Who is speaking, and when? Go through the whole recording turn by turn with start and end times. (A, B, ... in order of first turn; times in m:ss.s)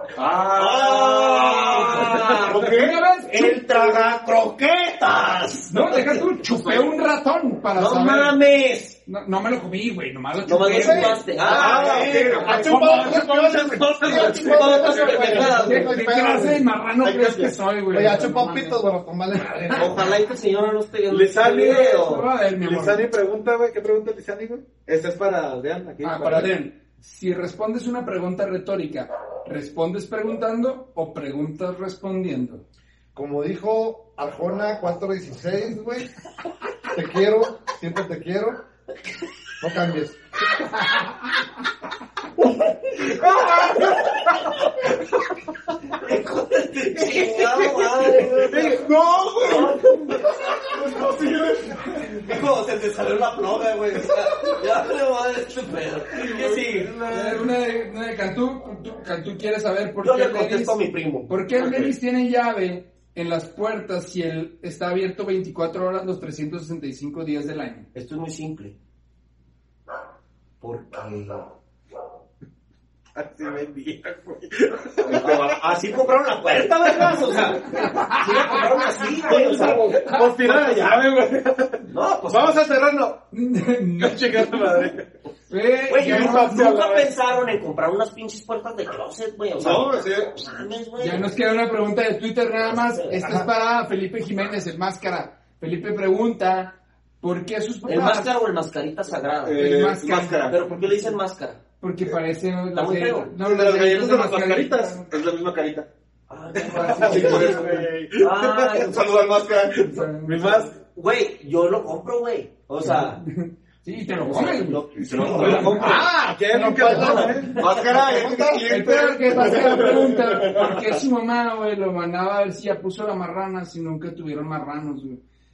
0:00.2-0:03.0 A
0:00.5-0:02.6 B
0:02.1-0:03.6 C
0:03.3-0:06.2 B
0:05.7-0:08.4 C
0:06.5-0:06.8 A
0:07.8-0:09.0 B
0:09.1-0:12.7 C
0:10.5-0:12.3 B
0:10.7-0:14.8 D
0:11.4-0:15.3 A
0:11.7-0:16.7 E
0:14.1-0:16.0 B
0:15.3-0:18.8 C
0:17.0-0:17.6 A
0:17.9-0:20.2 E
0:19.7-0:22.3 B
0:21.1-0:26.5 D
0:21.6-0:23.1 C
0:26.0-0:32.6 C
0:33.2-0:36.1 E
0:36.9-0:38.6 E
0:39.6-0:40.2 E
0:43.2-0:43.7 D
0:43.5-0:44.5 B
0:45.9-0:48.8 B
0:47.2-0:52.0 A
0:48.5-0:48.9 D
0:49.4-0:50.9 B
0:52.0-0:57.0 B
0:56.3-0:57.4 D
0:56.9-1:00.8 C
1:00.0-1:01.9 B
1:01.3-1:07.9 C
1:07.9-1:08.8 B
1:10.6-1:11.5 B
1:13.2-1:15.5 D
1:15.0-1:19.9 B
1:16.5-1:17.6 D
1:17.7-1:20.8 C
1:19.2-1:23.2 D
1:19.3-1:20.0 A
1:21.9-1:22.6 B
1:23.3-1:24.6 C
1:24.0-1:25.1 D
1:25.5-1:26.6 C
1:25.9-1:31.4 B
1:26.0-1:27.1 D
1:29.6-1:30.4 A
1:31.0-1:38.3 C
1:32.6-1:33.4 B
1:37.9-1:39.6 B
1:39.4-1:40.6 A
1:39.6-1:40.5 C
1:40.5-1:41.6 B
1:41.8-1:45.1 C
1:42.8-1:43.3 B
1:43.4-1:45.9 A
1:46.3-1:49.0 B
1:46.6-1:48.1 D
1:46.7-1:50.1 A
1:46.8-1:47.6 C
1:49.8-1:50.6 C
1:50.2-1:50.8 D
1:50.8-1:53.2 B
1:52.8-1:56.0 C
1:54.2-1:56.1 B
1:55.0-1:56.0 A
1:55.4-1:57.6 D
1:56.5-1:58.7 E
1:56.8-1:57.9 B
1:57.6-2:01.0 A
1:58.7-2:05.2 C